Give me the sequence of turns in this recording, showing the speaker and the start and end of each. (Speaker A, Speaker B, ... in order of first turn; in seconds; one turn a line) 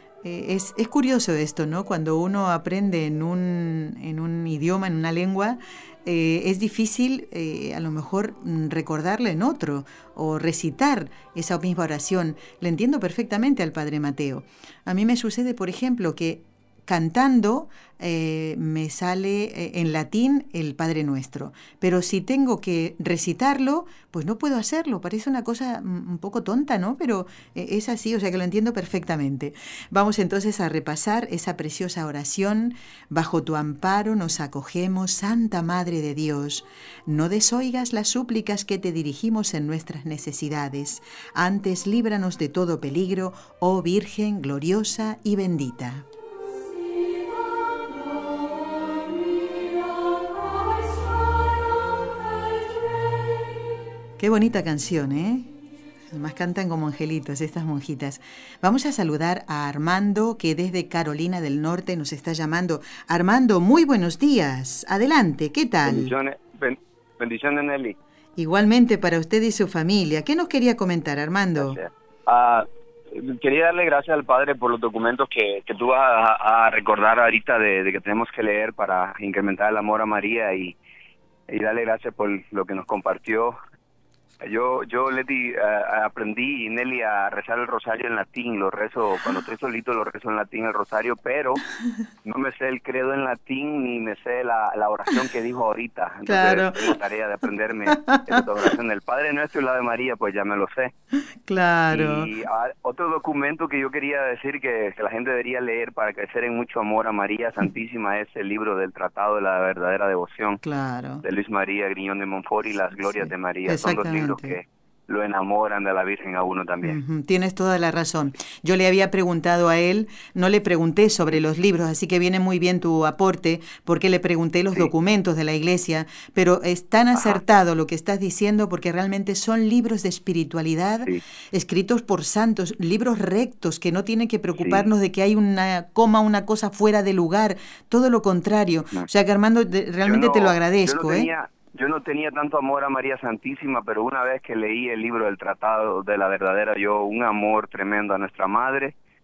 Speaker A: 0.2-46.1
Speaker A: 54.2-55.5
Speaker A: 56.1-66.1
Speaker B: 65.8-68.0
Speaker A: 68.4-71.8
Speaker B: 71.6-80.8
Speaker B: 81.5-83.5
Speaker B: 84.4-91.6
Speaker B: 92.2-100.9
Speaker A: 96.2-97.0
Speaker A: 97.9-98.7
Speaker A: 101.5-102.3
Speaker B: 101.9-110.6
Speaker A: 110.6-111.2
Speaker B: 111.2-117.0
Speaker A: 113.2-114.6
Speaker A: 116.8-141.3
Speaker B: 140.1-148.9